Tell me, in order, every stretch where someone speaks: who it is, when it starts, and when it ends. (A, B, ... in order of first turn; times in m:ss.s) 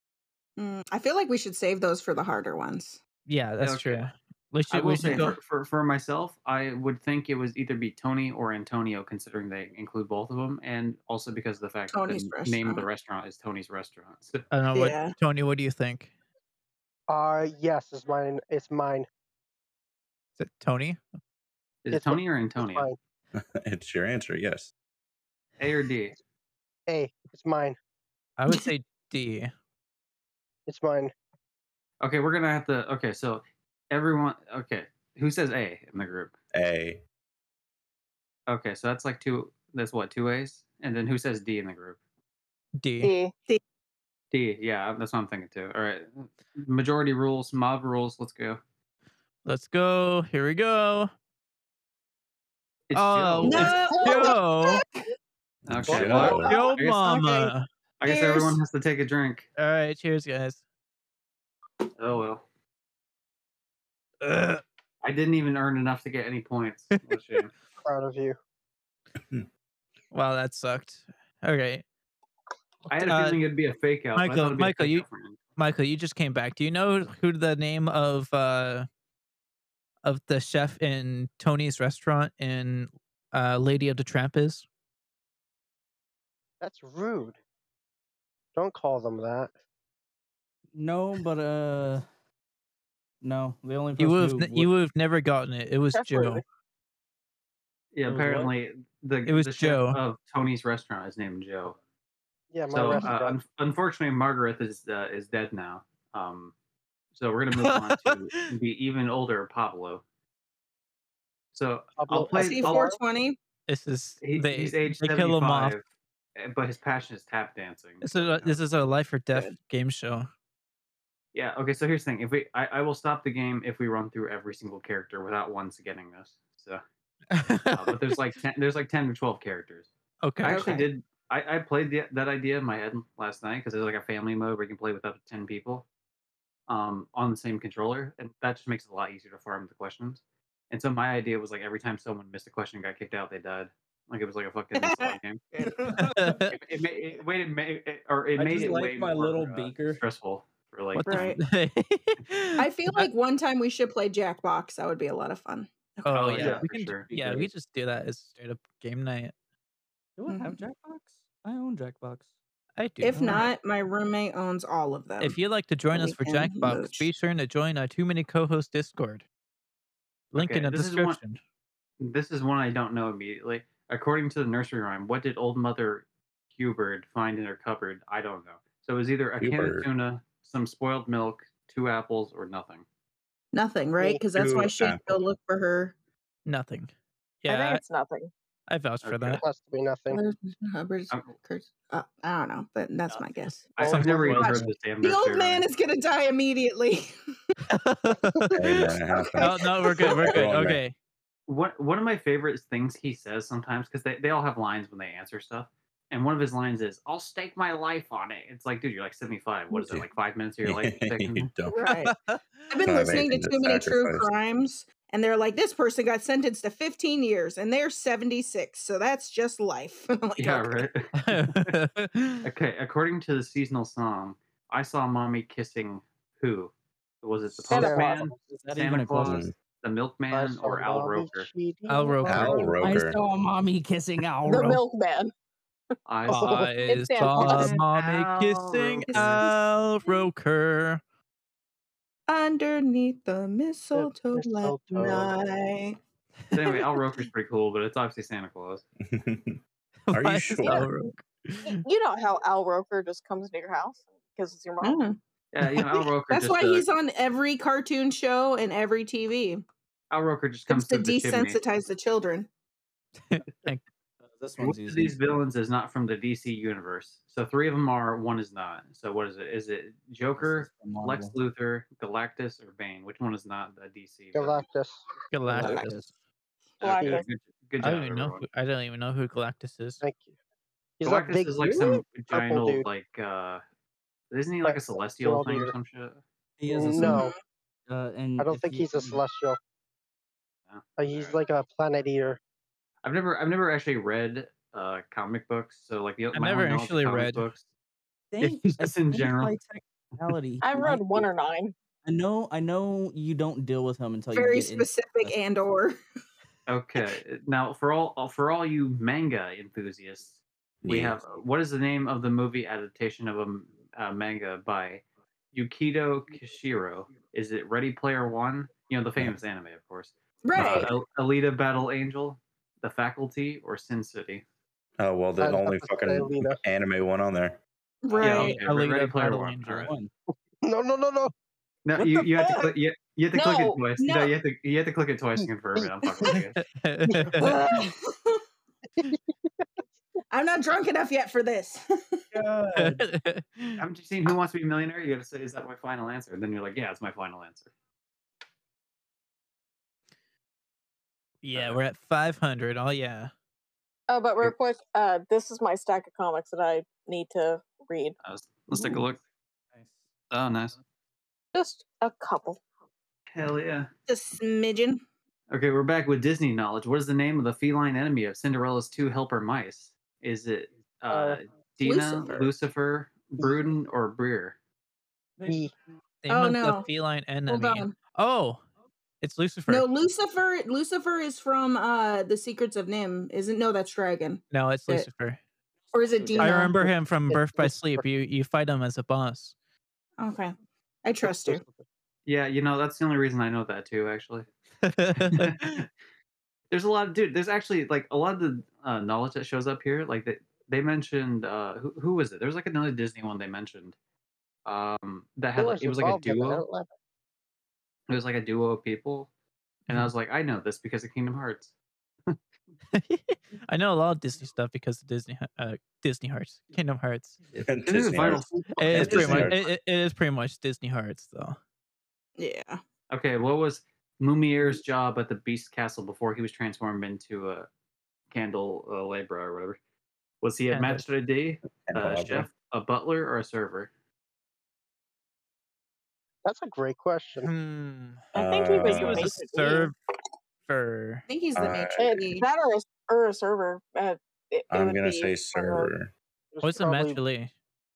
0:00.6-0:03.0 A
0:03.3-0:05.4 B
0:03.6-0:04.1 C
0:04.7-0:14.4 C
0:05.0-0:05.3 A
0:11.9-0:12.9 A
0:14.5-0:16.1 B
0:14.7-0:15.1 A
0:17.1-0:19.1 D
0:20.4-0:21.0 B
0:21.8-0:22.9 C
0:21.9-0:23.0 D
0:23.4-0:24.7 E
0:25.6-0:26.2 C
0:26.9-0:27.8 D
0:28.4-0:29.5 B
0:30.7-0:31.1 D
0:32.0-0:36.3 C
0:36.5-0:37.0 E
0:38.5-0:42.0 C
0:42.8-0:43.1 B
0:43.0-0:43.3 F
0:44.3-0:48.6 C
0:49.4-0:51.1 B
0:52.9-0:53.8 C
0:52.9-0:54.8 B
0:53.4-0:54.8 A
0:55.7-0:56.5 E
0:55.7-0:57.3 C
0:55.9-0:56.6 D
0:56.1-0:57.7 B
0:58.0-0:59.5 C
0:58.0-0:58.6 A
0:59.6-1:00.6 B
1:02.0-1:02.4 C
1:04.2-1:04.6 B
1:05.0-1:07.5 C
1:07.8-1:08.4 D
1:09.2-1:09.5 E
1:10.1-1:11.8 B
1:12.9-1:15.4 C
1:12.9-1:13.4 B
1:14.2-1:15.1 B
1:15.6-1:18.9 B
1:20.0-1:24.6 B
1:26.6-1:27.4 D
1:28.6-1:29.5 D
1:30.7-1:32.1 G
1:33.2-1:34.7 G
1:34.0-1:36.4 B
1:37.9-1:41.8 C
1:38.1-1:38.5 G
1:39.3-1:40.0 B
1:42.5-1:43.4 D
1:42.7-1:46.5 C
1:47.1-1:50.0 C
1:47.6-1:48.5 B
1:51.5-1:52.9 C
1:52.0-1:53.0 D
1:52.4-1:53.4 A
1:53.7-1:55.8 B
1:54.2-1:55.8 C
1:56.4-1:58.6 C
1:58.0-2:00.3 B
2:01.3-2:06.8 C
2:07.3-2:08.2 B
2:07.7-2:09.9 C
2:10.2-2:10.9 B
2:10.4-2:15.9 C
2:16.7-2:25.4 C
2:24.8-2:25.2 A
2:25.6-2:26.4 G
2:25.9-2:26.6 B
2:26.5-2:31.4 C
2:28.4-2:30.0 G
2:30.9-2:33.1 B
2:31.0-2:31.4 A
2:32.6-2:36.2 A
2:36.0-2:39.3 B
2:36.1-2:37.1 C
2:36.4-2:37.5 G
2:40.2-2:42.3 G
2:40.3-2:40.6 A
2:42.8-2:43.5 B
2:43.0-2:45.4 A
2:43.1-2:43.5 G
2:45.2-2:49.2 B
2:45.9-2:47.1 A
2:50.3-2:51.4 B
2:50.4-2:51.2 C
2:52.0-3:02.8 C
2:59.4-2:59.9 E
3:03.5-3:06.0 A
3:04.4-3:05.2 E
3:06.4-3:06.9 B
3:07.4-3:07.8 B
3:07.5-3:08.3 F
3:08.7-3:09.4 B
3:09.0-3:09.4 C
3:09.4-3:10.2 D
3:10.1-3:13.8 A
3:13.8-3:15.6 C
3:13.8-3:14.5 D
3:13.8-3:14.7 B
3:14.4-3:17.1 A
3:17.7-3:20.9 B
3:18.6-3:20.8 E
3:19.4-3:20.2 A
3:21.5-3:31.5 C
3:29.8-3:30.1 E
3:30.6-3:31.8 E
3:31.7-3:32.1 A
3:32.0-3:32.4 B
3:32.7-3:40.9 A
3:32.8-3:34.3 E
3:40.4-3:41.8 C
3:41.2-3:42.5 B
3:42.4-3:51.5 C
3:47.7-3:48.3 F
3:47.7-3:48.4 D
3:48.3-3:49.5 G
3:49.2-3:49.5 E
3:50.3-3:52.8 D
3:51.9-3:52.7 B
3:52.3-3:53.2 E
3:52.8-3:54.8 G
3:54.4-3:55.3 F
3:56.1-3:56.7 C
3:56.3-4:01.0 B
3:56.5-3:57.8 F
3:57.4-3:59.4 C
3:59.1-3:59.6 A
4:02.3-4:06.0 A
4:03.9-4:05.4 D
4:06.5-4:08.8 C
4:09.0-4:09.6 E
4:10.1-4:11.8 B
4:10.1-4:10.9 E
4:11.8-4:15.0 F
4:14.8-4:15.8 A
4:15.5-4:16.8 C
4:16.3-4:19.6 A
4:20.1-4:21.6 C
4:20.7-4:22.5 A
4:23.3-4:23.8 B
4:24.2-4:25.2 G
4:24.6-4:34.6 C
4:30.4-4:31.4 G
4:34.3-4:35.0 D
4:35.3-4:36.1 B
4:35.5-4:36.1 G
4:36.8-4:38.4 C
4:36.8-4:37.3 F
4:37.0-4:37.2 D
4:37.8-4:40.0 B
4:40.0-4:40.3 D
4:41.0-4:42.8 D
4:41.0-4:43.6 C
4:44.3-4:46.2 C
4:44.6-4:45.7 D
4:46.6-4:47.3 G
4:46.7-4:47.3 D
4:47.0-4:47.4 A
4:47.9-4:49.2 G
4:48.4-4:49.6 D
4:50.7-4:51.4 C
4:51.0-4:52.4 D
4:53.0-4:57.6 C
4:56.3-4:57.5 B
4:58.3-5:01.3 G
4:58.4-4:59.6 C
5:00.6-5:01.8 F
5:02.0-5:05.4 G
5:04.3-5:06.0 A
5:06.7-5:24.4 C
5:10.8-5:11.2 E
5:20.4-5:20.9 A
5:20.6-5:20.9 E
5:25.0-5:27.6 E
5:25.4-5:26.6 D
5:28.0-5:28.6 A
5:28.1-5:29.9 C
5:28.2-5:29.9 B
5:28.4-5:28.6 G
5:29.8-5:30.1 G
5:30.6-5:31.3 D
5:31.8-5:36.6 C
5:33.3-5:33.8 F
5:34.0-5:34.3 A
5:35.8-5:36.4 D
5:36.3-5:37.6 B
5:37.1-5:37.5 D
5:37.4-5:38.4 A
5:40.3-5:42.2 A
5:42.3-5:43.0 G
5:42.8-5:43.8 B
5:43.8-5:47.7 C
5:51.4-5:53.3 B
5:51.5-5:51.8 C
5:54.1-5:58.2 F
5:58.2-5:59.2 C
5:59.7-6:00.0 G
6:00.3-6:00.8 C
6:01.5-6:02.6 F
6:03.3-6:03.9 C
6:04.1-6:05.0 A
6:05.5-6:14.6 C
6:11.1-6:11.4 D
6:11.8-6:12.4 A
6:13.4-6:13.7 D
6:15.4-6:15.7 G
6:15.4-6:15.7 D
6:16.2-6:18.6 B
6:16.3-6:16.9 A
6:17.5-6:18.0 A
6:19.2-6:19.9 B
6:19.7-6:25.1 A
6:24.5-6:25.4 B
6:25.9-6:26.8 A
6:26.0-6:26.6 G
6:26.4-6:29.6 B
6:26.8-6:28.0 D
6:30.2-6:30.5 A
6:31.0-6:31.6 A
6:32.3-6:34.5 C
6:34.8-6:35.8 B
6:35.2-6:35.9 C
6:36.7-6:44.0 C
6:44.6-6:46.6 C
6:45.6-6:46.9 D
6:48.1-6:49.3 C
6:49.9-6:51.7 C
6:52.9-6:57.4 B
6:57.6-6:59.4 C
6:57.6-6:59.6 E
6:58.2-6:59.5 D
6:58.8-7:01.6 B
7:02.4-7:02.8 A
7:03.1-7:07.7 C
7:08.3-7:09.8 C
7:10.4-7:13.9 C
7:10.7-7:11.0 B
7:11.8-7:12.5 E
7:16.4-7:17.5 D
7:17.4-7:18.3 B
7:18.3-7:19.9 F
7:18.4-7:19.4 E
7:18.8-7:20.0 B
7:20.7-7:21.2 B
7:21.3-7:22.5 A
7:21.6-7:22.0 E
7:22.0-7:25.9 F
7:24.7-7:26.1 E
7:26.5-7:27.2 D
7:26.6-7:27.5 B